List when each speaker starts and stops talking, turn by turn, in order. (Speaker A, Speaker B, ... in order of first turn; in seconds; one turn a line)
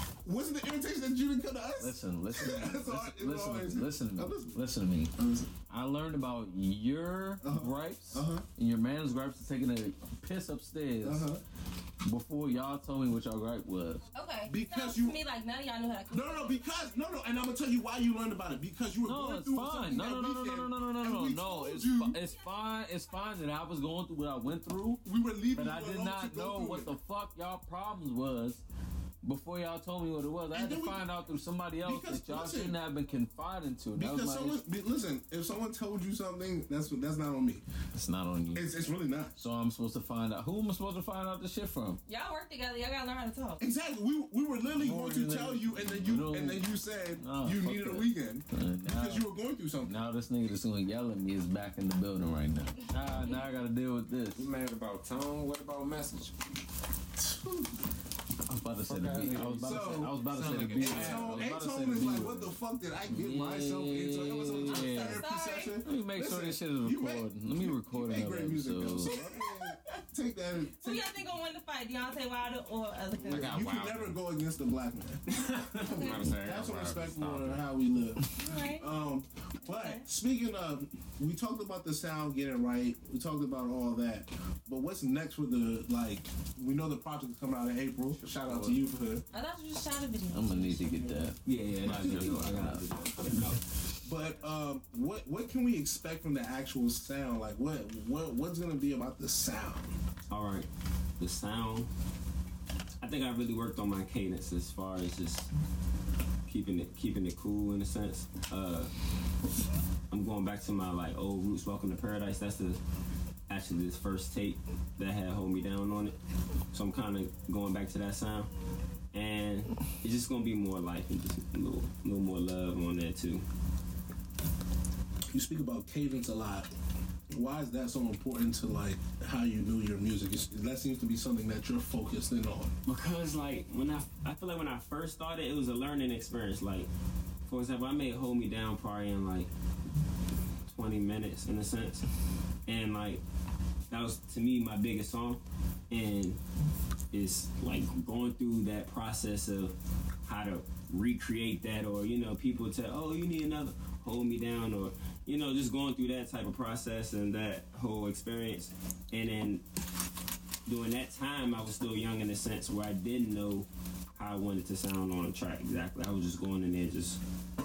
Speaker A: 0.2-4.6
Speaker B: 1.8-5.1
Speaker A: 5.2-5.5
Speaker B: 5.7-11.3
Speaker A: 7.4-8.5
Speaker A: 11.0-11.4
Speaker B: 12.0-14.1
Speaker C: 14.1-16.6
Speaker A: 14.5-15.2
Speaker A: 16.1-22.2
Speaker B: 19.0-25.0
Speaker A: 25.1-26.9
Speaker B: 25.5-28.6
Speaker B: 29.2-34.6
Speaker A: 30.5-31.1
Speaker A: 31.8-32.8
Speaker A: 34.0-37.6
Speaker B: 38.0-38.8
Speaker A: 38.5-39.4
Speaker B: 39.4-42.0
Speaker C: 42.1-43.6
Speaker A: 43.6-50.0
Speaker B: 44.8-49.2
Speaker B: 49.8-54.5
Speaker C: 53.1-53.4
Speaker D: 54.4-56.3
Speaker A: 57.2-57.7
Speaker B: 58.5-62.5
Speaker D: 58.9-61.5
Speaker A: 59.5-60.2
Speaker A: 60.8-71.2
Speaker B: 63.1-65.2
Speaker C: 64.7-65.8
Speaker B: 65.8-69.2
Speaker C: 69.1-70.0
Speaker C: 70.7-73.7
Speaker A: 73.2-89.2
Speaker D: 73.3-74.2
Speaker D: 75.3-77.7
Speaker C: 75.8-76.3
Speaker C: 78.3-78.9
Speaker C: 79.7-80.0
Speaker B: 88.1-88.8
Speaker C: 89.3-91.1
Speaker B: 90.3-93.5
Speaker E: 91.5-93.6
Speaker A: 94.0-100.0
Speaker E: 100.3-100.7
Speaker E: 101.2-101.9
Speaker E: 103.0-105.5
Speaker E: 106.5-108.9
Speaker E: 110.1-112.8
Speaker E: 113.5-116.2
Speaker E: 116.7-118.5
Speaker E: 119.1-123.4
Speaker A: 125.3-126.7
Speaker A: 127.3-132.7
Speaker E: 132.9-136.9
Speaker E: 137.5-139.5
Speaker E: 140.7-142.1
Speaker E: 142.7-143.2
Speaker E: 143.9-146.4
Speaker E: 147.1-159.6
Speaker E: 160.7-167.2